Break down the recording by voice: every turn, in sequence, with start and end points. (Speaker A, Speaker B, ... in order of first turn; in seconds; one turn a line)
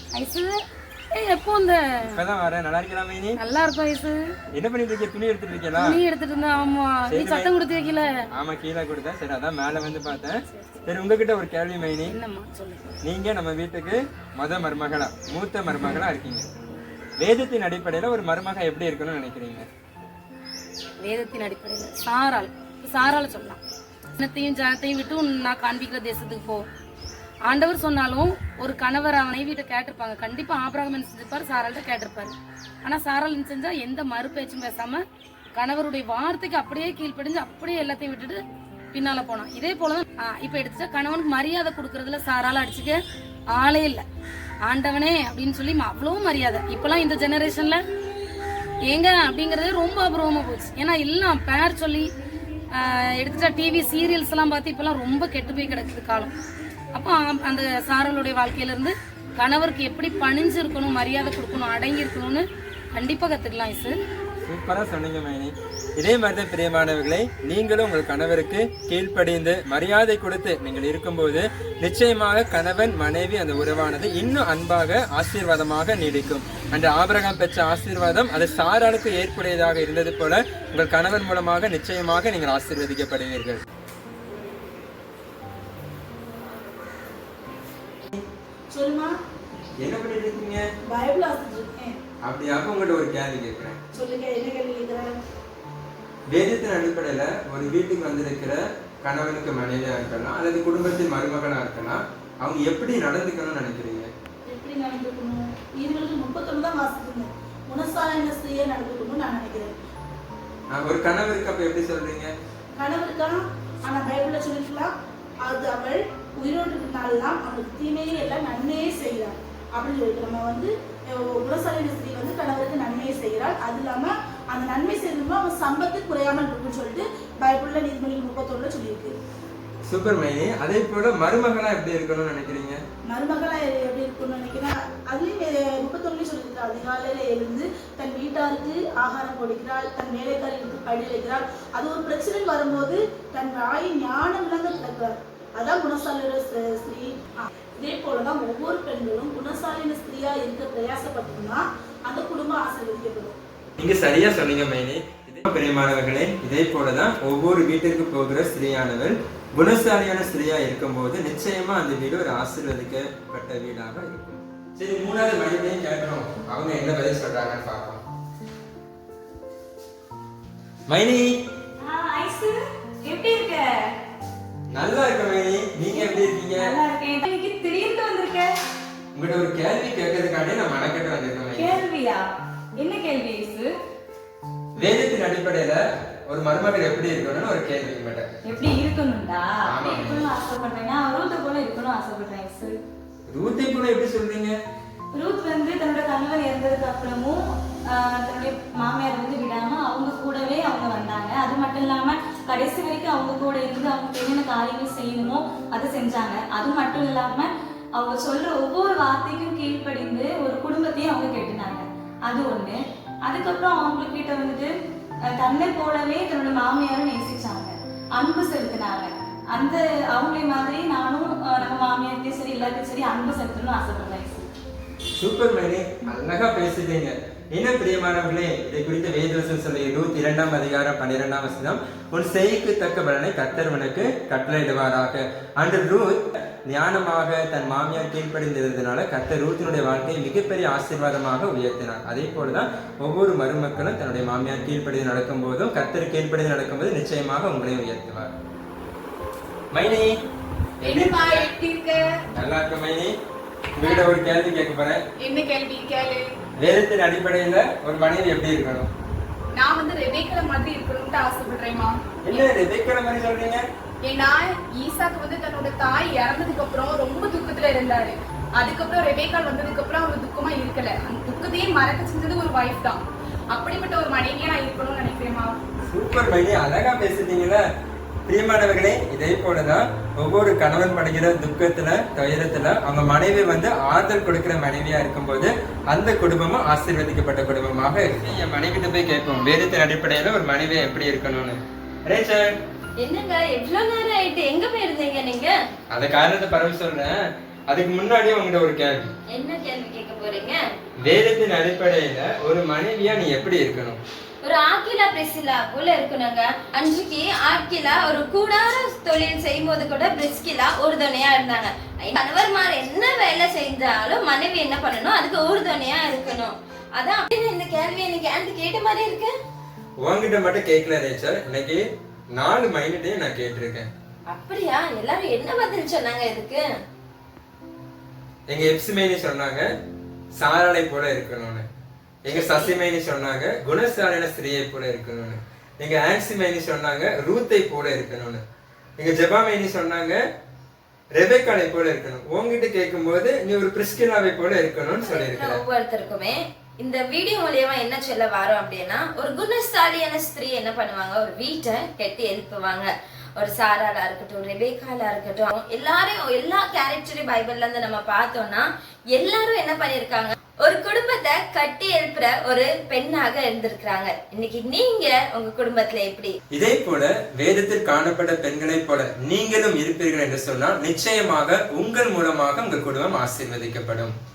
Speaker A: 0.1-0.5
Speaker A: 1.1-1.8
Speaker B: 2.1-3.4
Speaker A: 3.4-4.2
Speaker B: 4.5-6.0
Speaker A: 5.8-8.1
Speaker B: 7.1-7.5
Speaker B: 8.3-12.1
Speaker A: 10.5-10.8
Speaker A: 12.1-12.9
Speaker B: 13.0-16.5
Speaker B: 17.2-19.7
Speaker A: 21.0-23.6
Speaker A: 24.2-26.7
Speaker A: 27.5-35.0
Speaker A: 35.5-38.4
Speaker A: 38.9-43.0
Speaker A: 43.5-44.0
Speaker A: 44.6-47.8
Speaker A: 48.9-52.1
Speaker A: 52.8-56.3
Speaker A: 56.9-64.0
Speaker B: 64.5-83.6
Speaker C: 88.7-89.1
Speaker B: 89.8-90.6
Speaker C: 90.9-92.0
Speaker B: 92.2-93.8
Speaker C: 93.9-95.2
Speaker B: 96.3-104.1
Speaker C: 104.5-109.7
Speaker B: 110.7-112.3
Speaker C: 112.8-114.9
Speaker C: 115.5-129.1
Speaker B: 129.8-132.8
Speaker C: 133.1-153.4
Speaker B: 153.8-168.0
Speaker B: 170.9-171.3
Speaker D: 171.8-173.9
Speaker B: 174.7-176.8
Speaker D: 175.9-178.5
Speaker B: 179.1-181.8
Speaker D: 181.5-182.3
Speaker D: 182.8-183.7
Speaker B: 184.8-188.3
Speaker D: 188.4-192.8
Speaker B: 189.7-190.3
Speaker B: 193.3-194.6
Speaker D: 195.1-214.7
Speaker D: 215.3-224.5
Speaker B: 225.2-248.3
Speaker B: 249.7-250.1
Speaker B: 250.8-251.5
Speaker E: 250.8-252.2
Speaker B: 252.3-253.1
Speaker B: 253.8-255.0
Speaker E: 255.2-256.3
Speaker B: 256.6-258.9
Speaker E: 259.5-262.5
Speaker B: 262.2-263.6
Speaker E: 264.0-275.6
Speaker B: 275.9-277.6
Speaker B: 278.3-292.5
Speaker F: 293.0-295.5
Speaker B: 295.9-297.1
Speaker B: 297.7-299.1
Speaker F: 299.3-300.6
Speaker B: 301.0-304.0
Speaker F: 304.4-319.3
Speaker B: 320.0-321.8
Speaker B: 322.4-323.9
Speaker F: 324.3-326.6
Speaker B: 328.5-329.7
Speaker B: 330.4-331.7
Speaker B: 332.2-338.4
Speaker F: 332.3-332.8
Speaker B: 339.0-340.2
Speaker B: 341.1-345.6
Speaker F: 345.0-366.4
Speaker B: 366.5-374.1